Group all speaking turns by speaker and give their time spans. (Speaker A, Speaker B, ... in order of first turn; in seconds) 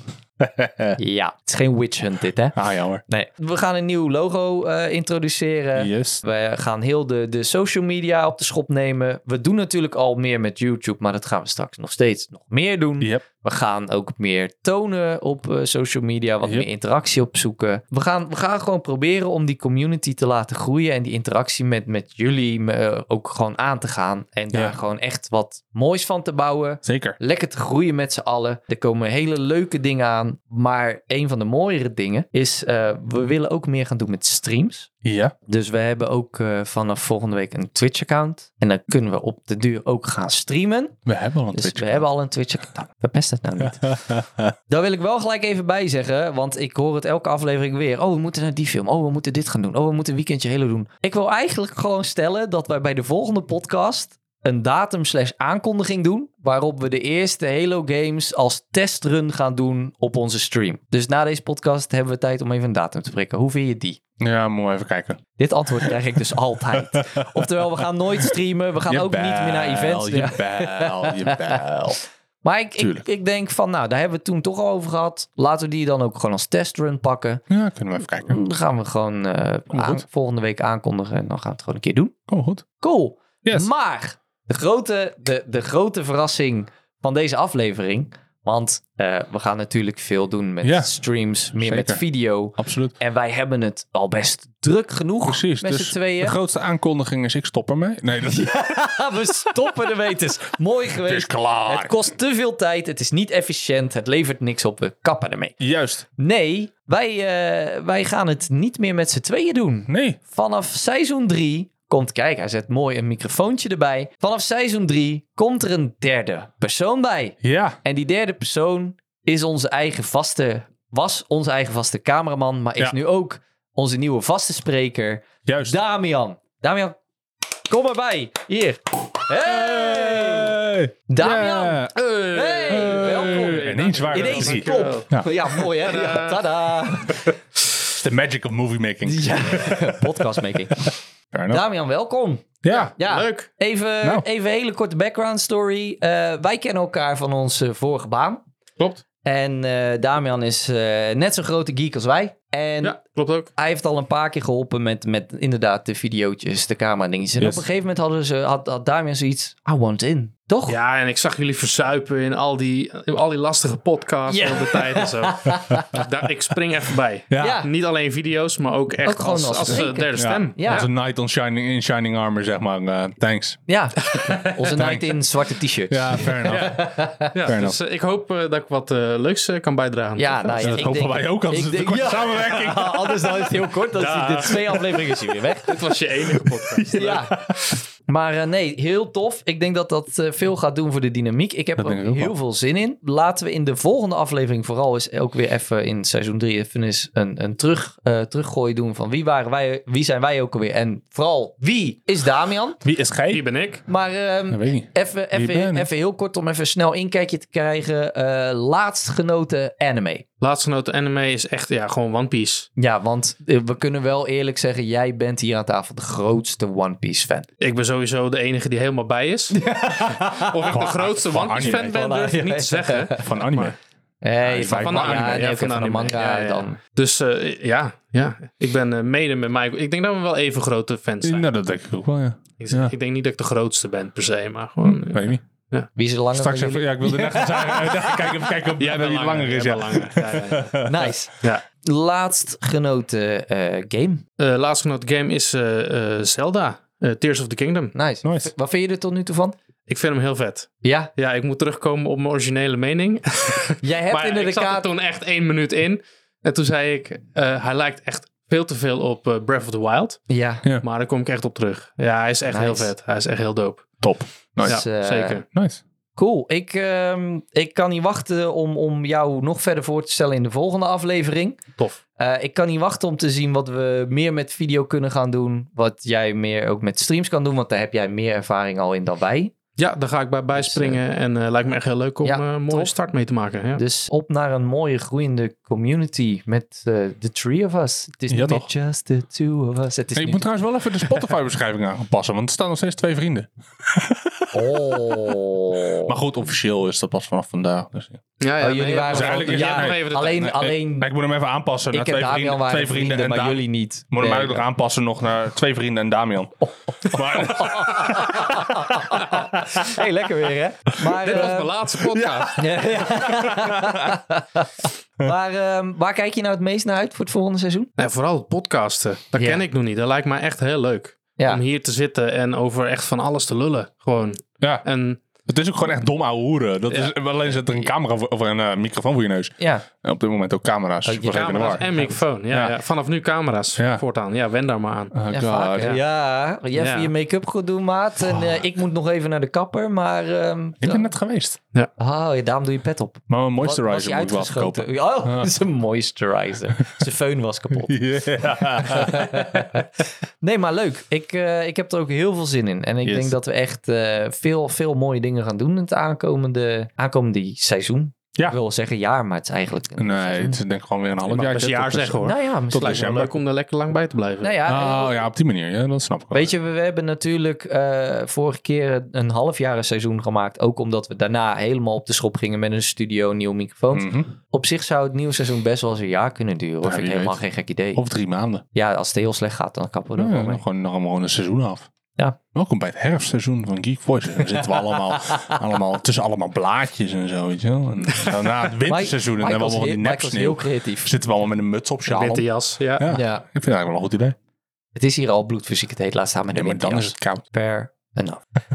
Speaker A: 0.4-1.0, 2.5-3.0, 5.7-6.2, 16.4-16.7, 26.8-27.2, 35.0-35.3, 41.0-42.0, 43.8-44.5, 64.2-65.2, 66.8-68.3, 68.9-72.0, 72.8-73.0, 77.5-78.4, 79.7-80.0, 82.3-82.6, 90.6-90.9, 91.6-92.0, 92.6-92.9, 95.2-98.5, 101.0-102.0, 105.6-106.0, 109.9-110.2, 117.4-117.8, 125.4-125.8, 129.4-131.9, 132.7-135.3, 137.9-141.6, 142.6-142.9, 157.4-157.6, 165.5-165.8, 167.3-167.6, 169.7-173.6, 174.7-175.2, 175.9-176.8, 177.4-177.8, 180.6-183.7, 186.8-187.8, 191.8-192.3, 202.8-203.4, 204.5-205.9, 220.7-221.9, 223.2-223.8, 224.4-225.5, 231.2-232.9, 234.8-235.4, 236.3-241.1, 248.2-248.5, 264.0-264.8, 265.5-265.8, 288.3-288.6, 290.1-295.4, 296.0-298.2, 299.1-310.0, 312.1-312.5, 313.3-314.1, 325.4-331.9, 332.5-332.8, 333.8-334.0, 335.1-336.0, 340.8-341.6, 343.3-345.5, 347.9-349.8, 353.0-353.3, 360.0-363.4, 364.6-366.5, 373.9-374.3, 376.8-377.4, 377.9-378.6, 380.2-381.9, 382.5-394.4, 396.5-397.4
Speaker B: 1.0-2.5, 3.1-34.9, 35.5-41.0, 41.5-44.1, 44.7-64.0, 65.3-71.6, 72.4-77.4, 78.3-82.1, 82.8-96.4, 98.2-105.5, 106.2-127.0, 127.6-130.6, 131.1-137.3, 139.1-140.9, 141.5-148.4, 149.2-152.9, 153.6-160.8, 164.3-166.0, 167.4-167.7, 169.0-170.8, 173.7-177.3, 180.2-185.7, 186.9-187.6, 188.1-202.8, 203.8-210.2, 212.8-217.5, 219.5-220.9, 221.5-223.3, 224.2-226.8, 235.9-237.8, 240.8-241.3, 241.8-244.2, 247.9-249.6, 250.8-251.1, 253.8-254.9, 260.3-260.6, 262.5-262.9, 264.6-265.4, 266.1-279.5, 280.5-281.0, 282.2-282.9, 283.7-290.5, 294.5-296.1, 298.6-301.1, 301.9-304.6, 306.9-311.8, 312.5-314.7, 315.2-317.9, 319.3-319.6, 329.6-329.8, 331.0-332.2, 335.3-341.1, 342.0-349.9, 350.4-360.6, 362.2-363.2, 364.4-365.2, 366.3-378.0, 378.7-380.6, 388.8-391.2, 393.1-393.4, 394.9-398.4
Speaker C: 131.9-136.4, 142.7-143.5, 152.8-153.5, 160.7-170.9, 174.1-174.9, 176.4-180.8, 183.9-187.2, 203.3-203.8, 210.4-212.7, 217.6-223.7, 224.6-231.5, 232.6-235.9, 237.7-240.8, 244.4-247.9, 249.9-260.2, 260.8-264.0, 264.6-265.4, 279.8-283.8, 298.4-300.5, 311.0-312.7, 318.0-325.2, 331.3-335.2, 336.7-337.1, 361.2-364.6, 392.1-393.1